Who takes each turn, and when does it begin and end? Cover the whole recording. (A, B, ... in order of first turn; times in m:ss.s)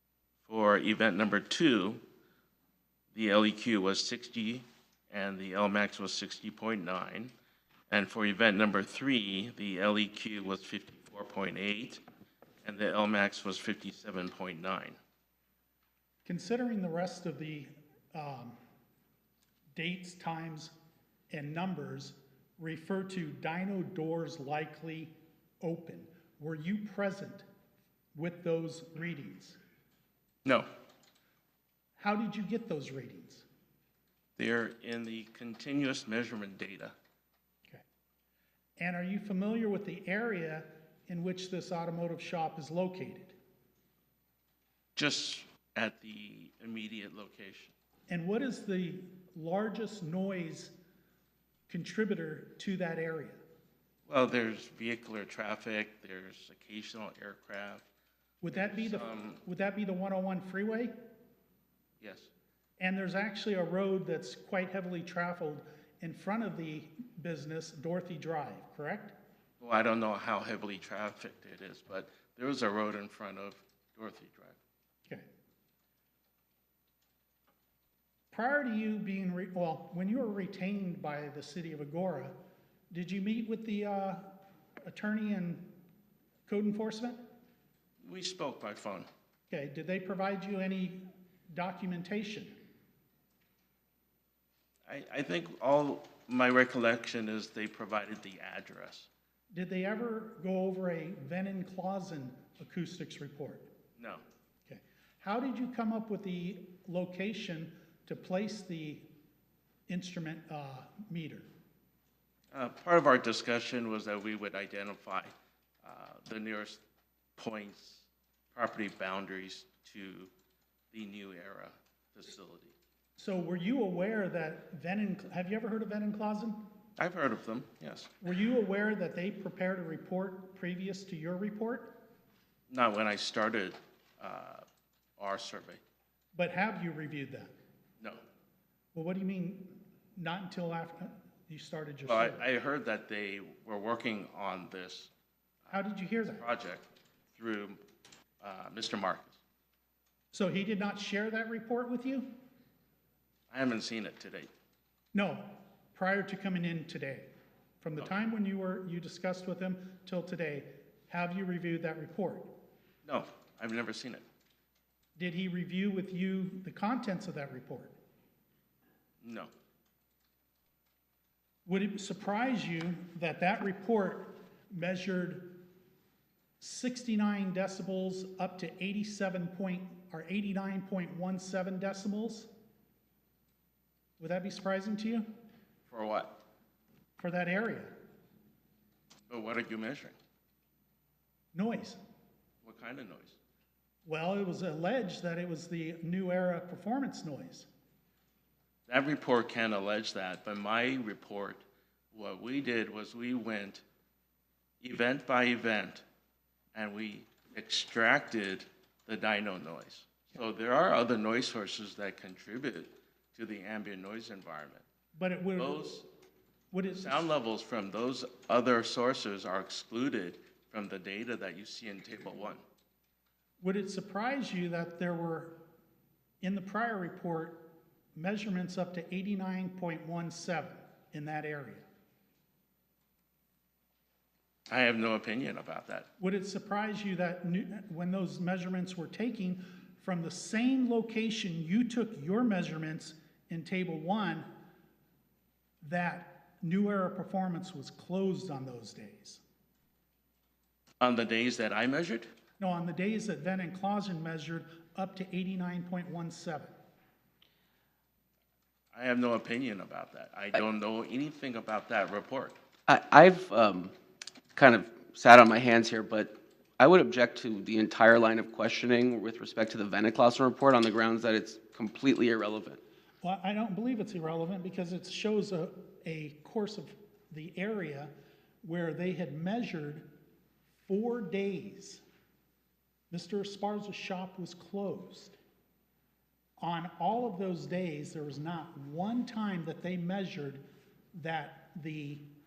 0:00.4-0:02.0 A
0:03.1-0:07.3 A
0:07.9-0:12.0 A
0:12.6-0:15.0 A
0:16.2-0:18.6 B
0:19.7-0:20.7 B
0:21.3-0:27.4 B
0:28.1-0:29.6 B
0:32.0-0:33.4 B
0:34.4-0:36.9 A
0:38.8-0:43.3 B
0:45.0-0:47.7 A
0:48.1-0:50.7 B
0:51.7-0:53.4 B
0:54.1-0:57.8 A
0:58.4-1:00.9 B
0:58.5-0:59.4 A
1:02.0-1:02.3 A
1:02.8-1:09.1 B
1:09.6-1:14.6 A
1:18.3-1:22.3 B
1:22.9-1:24.3 B
1:24.8-1:25.7 B
1:26.5-1:27.2 B
1:28.0-1:29.1 A
1:29.5-1:31.0 B
1:31.5-1:32.5 B
1:34.9-1:39.1 A
1:39.5-1:43.7 B
1:44.0-1:44.2 A
1:44.7-1:49.1 B
1:49.9-1:51.5 B
1:52.5-1:56.8 A
1:57.4-2:00.3 A
2:00.9-2:02.7 A
2:03.2-2:06.6 B
2:07.0-2:08.1 A
2:08.2-2:12.0 B
2:12.7-2:14.6 A
2:15.2-2:15.8 A
2:16.3-2:17.5 B
2:18.9-2:22.4 B
2:22.0-2:25.1 A
2:25.7-2:26.4 B
2:26.3-2:27.8 A
2:28.4-2:29.4 A
2:30.3-2:32.3 B
2:33.5-2:34.5 A
2:35.1-2:37.3 B
2:37.8-2:42.5 B
2:43.0-2:44.2 A
2:45.2-2:48.0 B
2:49.2-2:49.5 A
2:51.6-2:55.6 B
2:56.6-3:02.5 B
3:04.2-3:05.3 B
3:05.9-3:06.4 A
3:07.2-3:07.9 B
3:09.3-3:10.2 A
3:11.5-3:12.0 B
3:12.6-3:13.4 A
3:14.0-3:17.7 B
3:18.9-3:23.8 A
3:24.8-3:26.0 A
3:26.7-3:34.8 A
3:35.1-3:35.8 B
3:35.6-3:36.0 A
3:36.7-3:37.3 B
3:36.9-3:42.6 A
3:43.6-3:45.6 B
3:46.4-3:51.8 B
3:54.7-3:56.1 A
3:56.2-4:04.5 B
4:05.8-4:09.4 B
4:11.0-4:12.3 A
4:12.6-4:16.7 B
4:18.9-4:22.6 A
4:22.9-4:23.9 C
4:24.6-4:32.8 C
4:33.2-4:38.1 B
4:38.6-4:40.1 B
4:40.8-4:42.0 B
4:43.1-4:45.4 B
4:46.6-4:50.6 B
4:51.1-4:52.2 B